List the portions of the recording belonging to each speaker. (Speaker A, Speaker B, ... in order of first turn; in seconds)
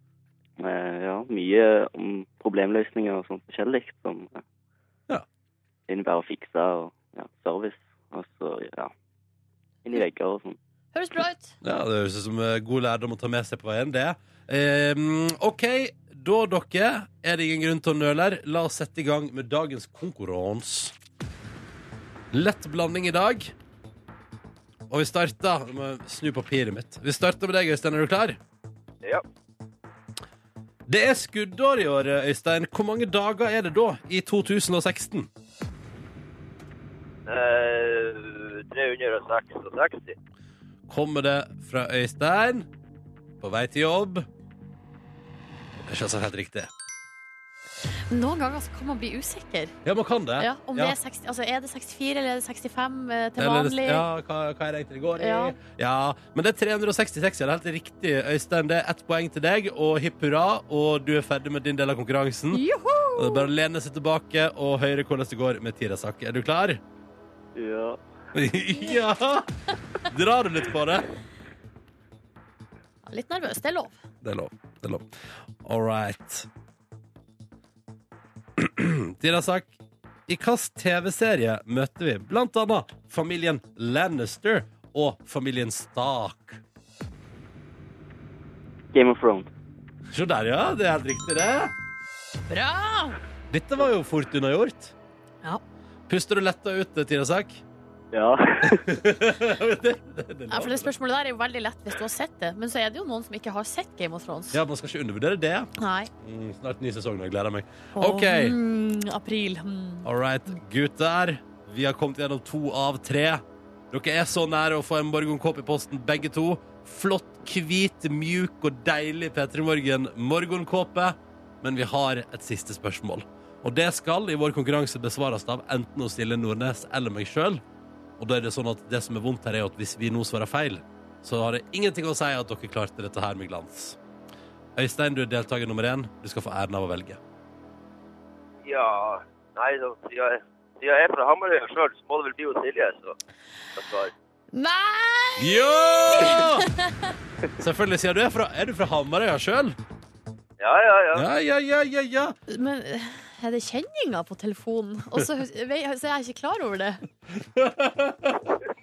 Speaker A: 0.6-4.4, 5.9-8.9, 9.8-10.6, 67.5-68.0, 88.9-89.5, 98.1-98.9
Speaker B: 10.9-11.5, 48.1-49.7, 50.4-54.0, 55.2-55.6, 62.5-63.5, 73.1-74.0, 92.5-93.2, 100.5-104.6, 105.8-106.1, 107.9-110.6, 144.5-147.1, 152.5-157.0
Speaker C: 11.6-20.9, 22.3-23.5, 24.9-28.4, 30.9-35.3, 40.9-42.7, 43.4-44.3, 45.9-46.7, 49.8-51.0, 53.4-62.6, 63.1-66.8, 68.3-69.5, 70.0-71.1, 74.2-75.1, 75.6-76.5, 78.5-86.6, 90.1-91.7, 93.5-94.9, 96.1-97.6, 98.6-100.9, 104.5-105.7, 106.2-108.6, 110.0-127.6, 128.2-134.0, 134.8-137.2, 145.4-146.7, 147.6-149.8, 151.1-152.3, 157.3-158.6
Speaker D: 37.3-40.1, 138.6-143.1, 143.8-144.1, 150.6-151.2